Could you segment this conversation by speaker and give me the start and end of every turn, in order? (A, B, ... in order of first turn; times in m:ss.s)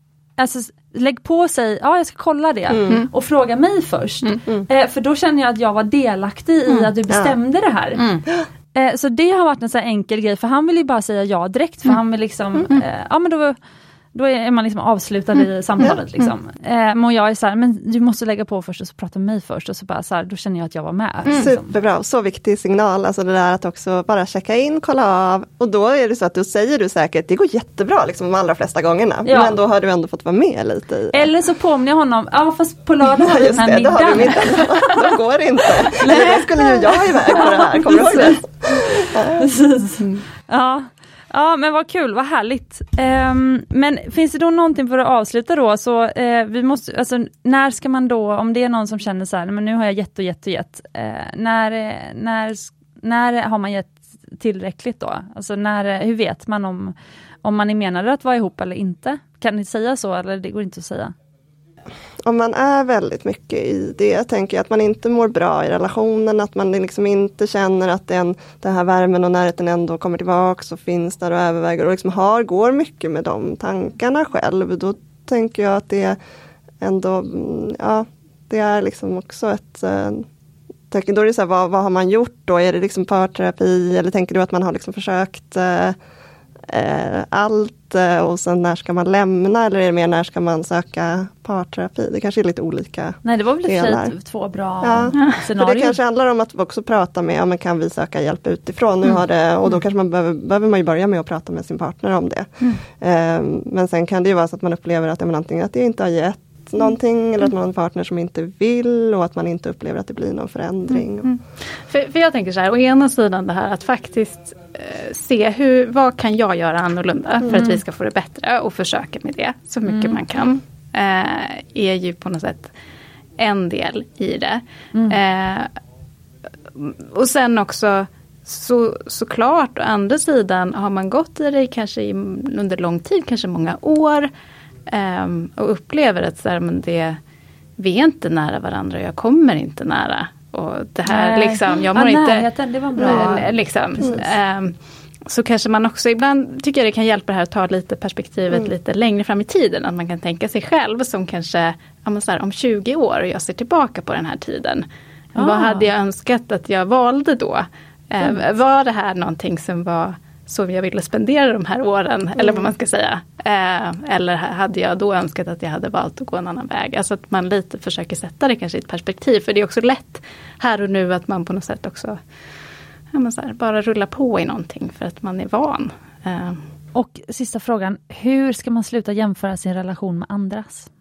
0:00.4-0:08.0 A
0:02.7-0:03.0 B
0:08.0-0:08.2 C
0:08.7-0:13.6 A
0:14.1-0:21.7 A
0:21.3-0:31.3 B
0:29.3-0:29.6 A
0:31.1-0:35.1 A
0:33.0-0:39.5 B
0:35.7-1:01.1 A
1:02.2-1:16.2 B
1:16.8-1:20.3 B
1:20.9-1:26.0 B
1:26.7-1:34.1 B
1:33.2-1:36.0 A
1:34.8-1:51.3 B
1:51.2-2:02.7 C
1:59.9-2:00.2 A
2:03.4-2:05.7 C
2:06.8-2:14.3 C
2:14.9-2:17.2 C
2:17.8-2:22.5 C
2:21.1-2:24.2 A
2:23.0-2:52.2 C
2:35.4-2:35.9 A
2:53.1-2:56.6 C
2:57.0-3:00.9 A